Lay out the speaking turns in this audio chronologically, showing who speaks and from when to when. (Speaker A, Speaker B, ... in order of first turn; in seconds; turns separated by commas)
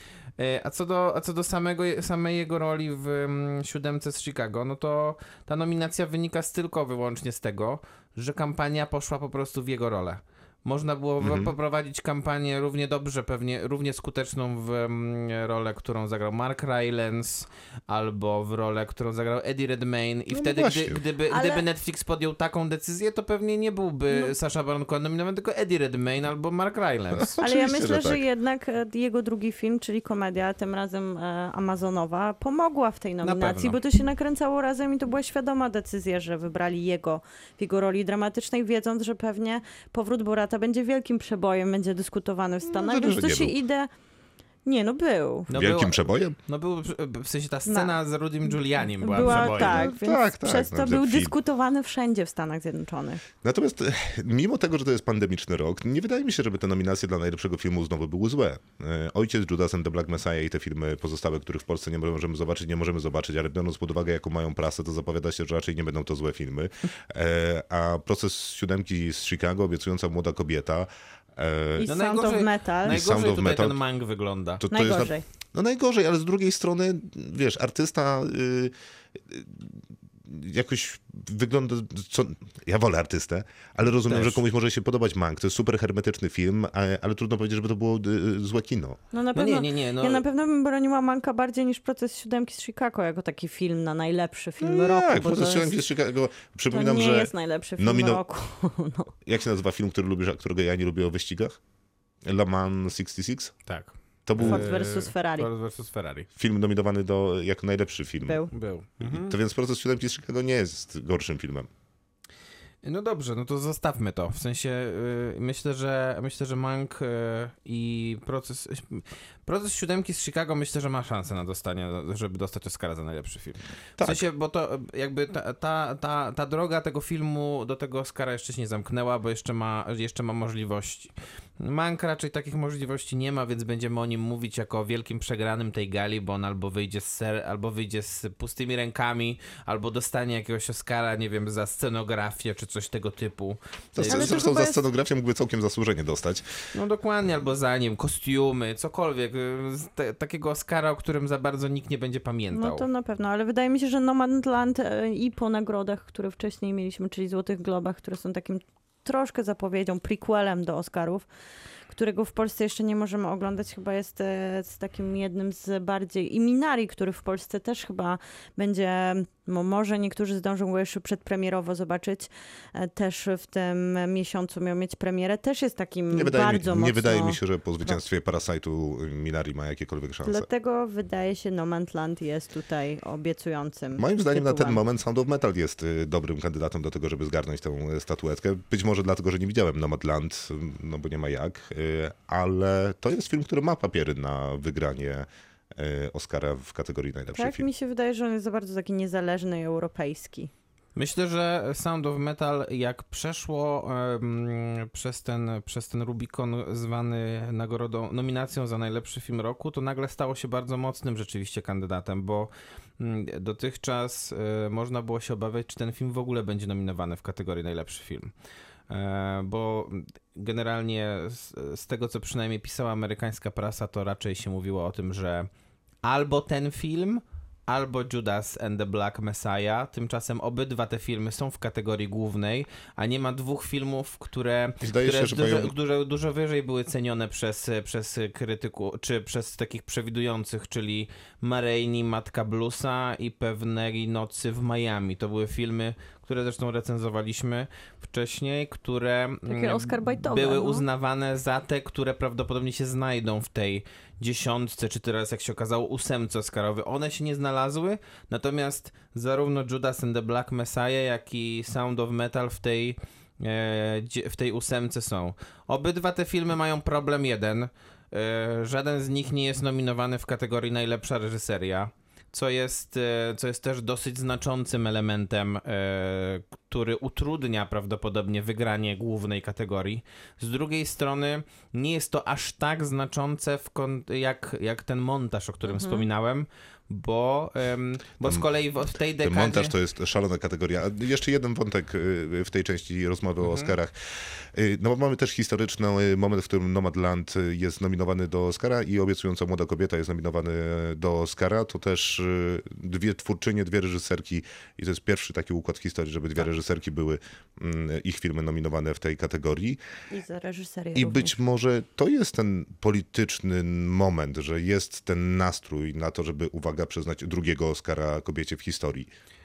Speaker A: 0.4-27.4, Speaker B: 11.2-11.5, Speaker B: 20.4-21.0, Speaker C: 21.3-21.6, Speaker B: 27.2-28.2, Speaker C: 27.4-43.9, Speaker A: 33.2-33.8, Speaker B: 42.7-43.6, Speaker C: 44.6-45.5, Speaker A: 45.5-49.9, Speaker B: 45.5-46.4, Speaker C: 47.7-53.2, Speaker B: 49.1-51.3, Speaker B: 53.4-71.9, Speaker C: 71.8-73.0, Speaker A: 71.9-74.6, Speaker B: 72.8-73.8, Speaker B: 74.6-89.0, Speaker C: 74.7-75.2, Speaker A: 84.1-84.4, Speaker C: 89.1-95.8, Speaker A: 89.3-90.2, Speaker B: 94.6-98.2, Speaker C: 96.7-99.1, Speaker B: 99.2-101.6, Speaker B: 102.2-103.5, Speaker A: 103.7-106.3, Speaker B: 104.3-104.7, Speaker C: 104.4-105.5, Speaker B: 106.3-108.5, Speaker A: 108.5-109.4, Speaker B: 109.0-111.7, Speaker A: 112.8-144.3, Speaker B: 124.0-124.2, Speaker B: 143.9-146.4, Speaker C: 144.0-144.8, Speaker A: 146.7-152.9, Speaker C: 152.5-161.3, Speaker C: 161.9-178.0, Speaker B: 176.1-180.5, Speaker C: 180.2-184.8, Speaker B: 184.0-197.7, Speaker C: 197.3-200.5, Speaker A: 201.0-218.3, Speaker A: 218.9-225.5, Speaker A: 226.0-289.7, Speaker B: 234.8-235.7, Speaker C: 249.5-250.9, Speaker C: 285.7-286.0, Speaker B: 289.2-309.8, Speaker A: 293.4-293.7, Speaker C: 310.1-311.4, Speaker B: 310.9-319.1